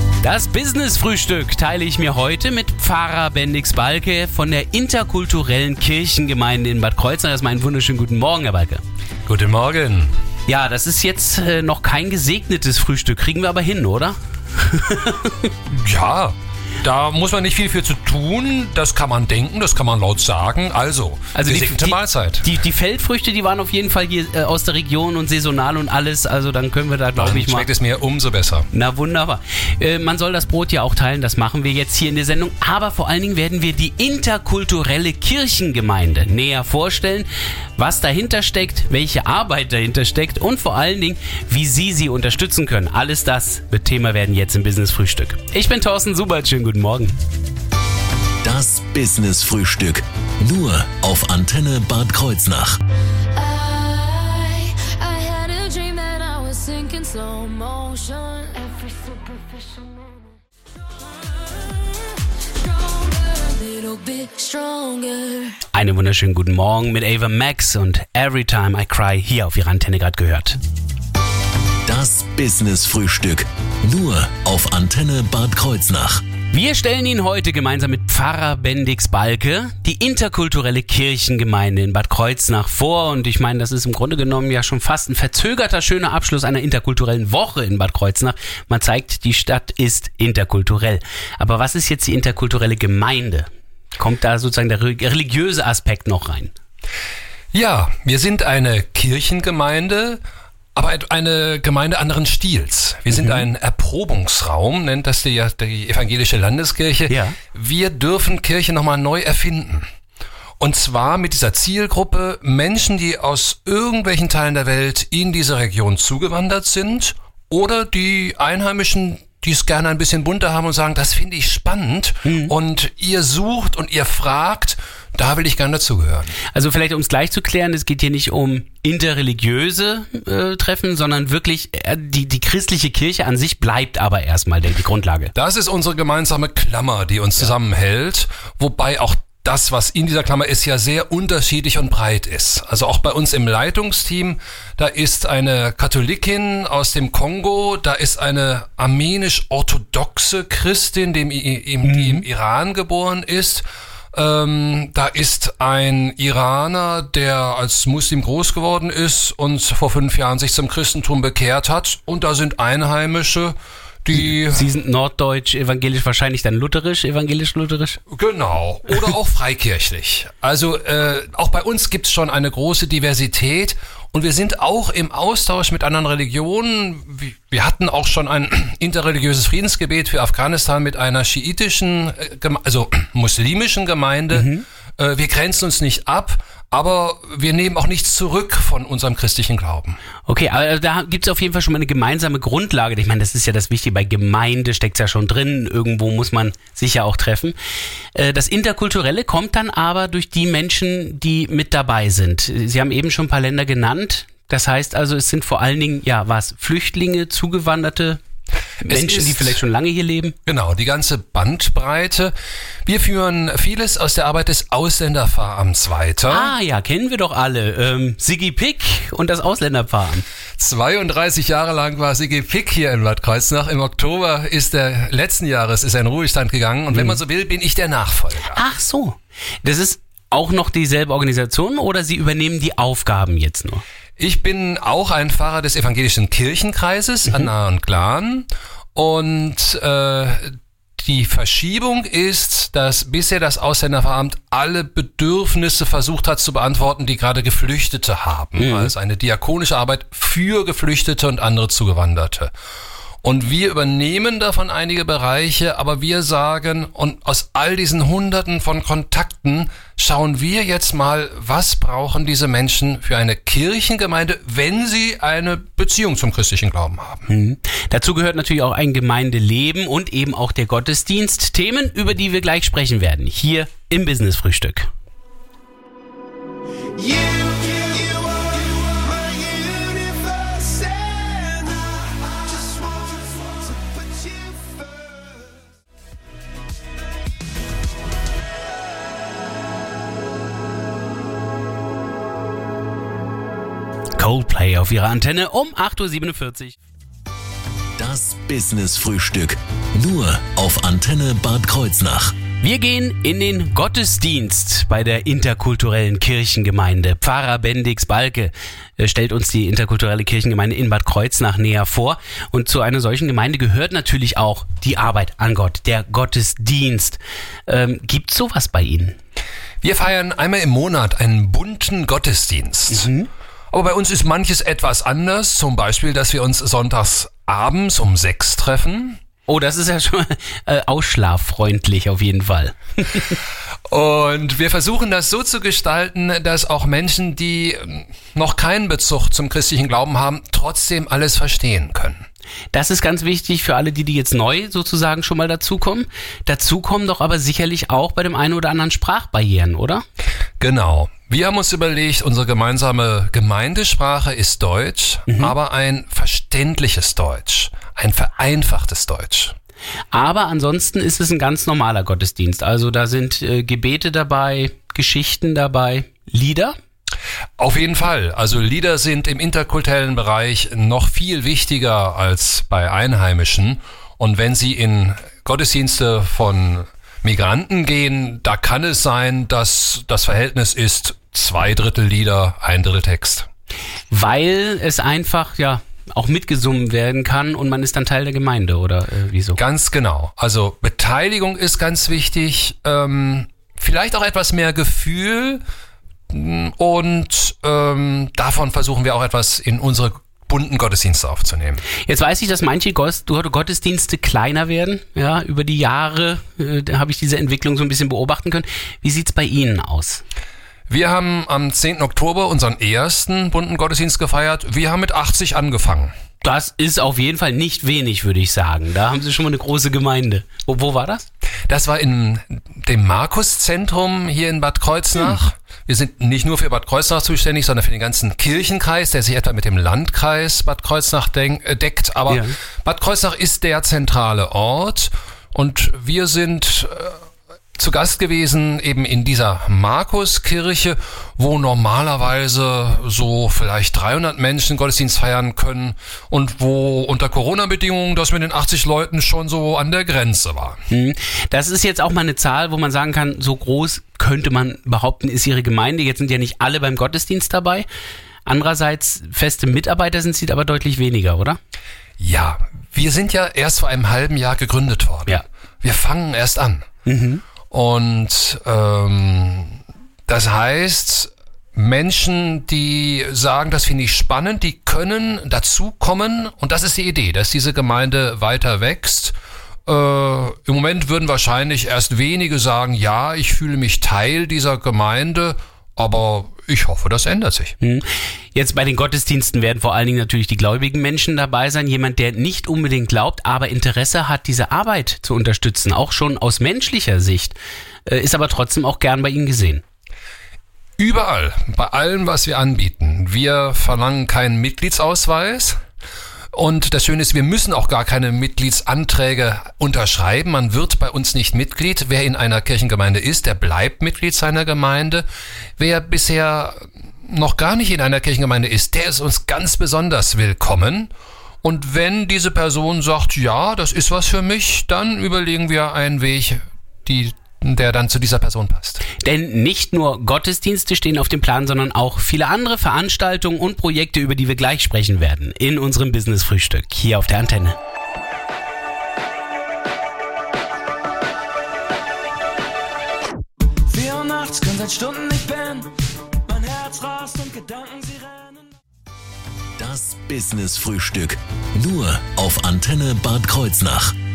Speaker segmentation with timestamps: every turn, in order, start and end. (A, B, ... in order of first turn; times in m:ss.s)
0:00.2-0:08.8 A
0:09.3-0:10.1 B
0:10.5-0:15.5 A
0:15.7-0:22.4 B
0:21.4-0:27.7 A
0:27.2-0:28.7 B
0:28.7-0:47.2 A
0:48.4-0:52.8 C
0:53.3-1:00.0 D
1:02.7-1:05.6 D
1:05.7-1:10.6 A
1:11.9-1:16.2 C
1:16.5-1:36.5 A
1:37.5-1:40.2 B
1:40.8-1:49.9 B
1:43.1-1:43.5 A
1:47.1-1:47.4 A
1:50.6-2:06.3 B
2:02.2-2:02.5 A
2:06.5-2:15.3 A
2:15.4-2:44.7 B
2:31.8-2:32.2 A
2:44.1-2:48.0 A
2:48.1-3:10.0 B
3:04.3-3:04.6 A
3:10.3-3:17.6 A
3:18.2-3:28.2 A
3:28.8-3:30.4 A
3:28.9-3:29.6 B
3:30.5-3:32.3 B
3:32.9-3:36.5 B
3:36.3-3:40.2 A
3:40.6-3:48.6 B
3:46.9-3:47.2 A
3:48.5-3:53.8 A
3:54.2-4:12.5 B
4:08.6-4:08.9 A
4:13.2-4:27.3 B
4:27.3-4:34.9 A
4:37.0-4:37.5 E
4:37.6-4:39.0 F
4:38.0-4:40.2 D
4:39.4-4:41.9 E
4:43.0-4:43.4 E
4:44.8-4:45.5 E
4:54.2-4:56.8 A
4:58.0-5:02.3 C
5:02.6-5:19.2 A
5:19.8-5:23.1 B
5:22.9-5:23.3 A
5:23.7-5:29.2 B
5:29.5-5:33.4 A
5:33.9-5:42.2 B
5:42.7-5:50.0 A
5:50.6-5:59.6 B
5:55.3-5:55.6 A
6:00.1-6:06.8 A
6:07.6-6:23.5 B
6:24.1-6:29.6 A
6:29.6-6:35.6 B
6:36.3-6:41.8 B
6:42.0-6:50.2 A
6:50.9-6:56.1 B
6:56.4-7:01.3 A
7:01.7-7:17.2 B
7:12.3-7:12.6 A
7:17.8-7:30.8 B
7:30.9-7:37.9 A
7:38.4-7:41.6 A
7:42.2-7:46.9 B
7:47.1-7:47.4 A
7:47.7-7:59.4 B
7:59.9-8:07.7 B
8:07.8-8:19.8 A
8:21.0-8:25.8 B
8:26.5-8:35.2 B
8:35.8-8:41.1 B
8:41.6-8:49.0 B
8:49.2-8:57.8 A
9:03.9-9:05.9 F
9:06.5-9:08.7 F
9:09.8-9:14.1 C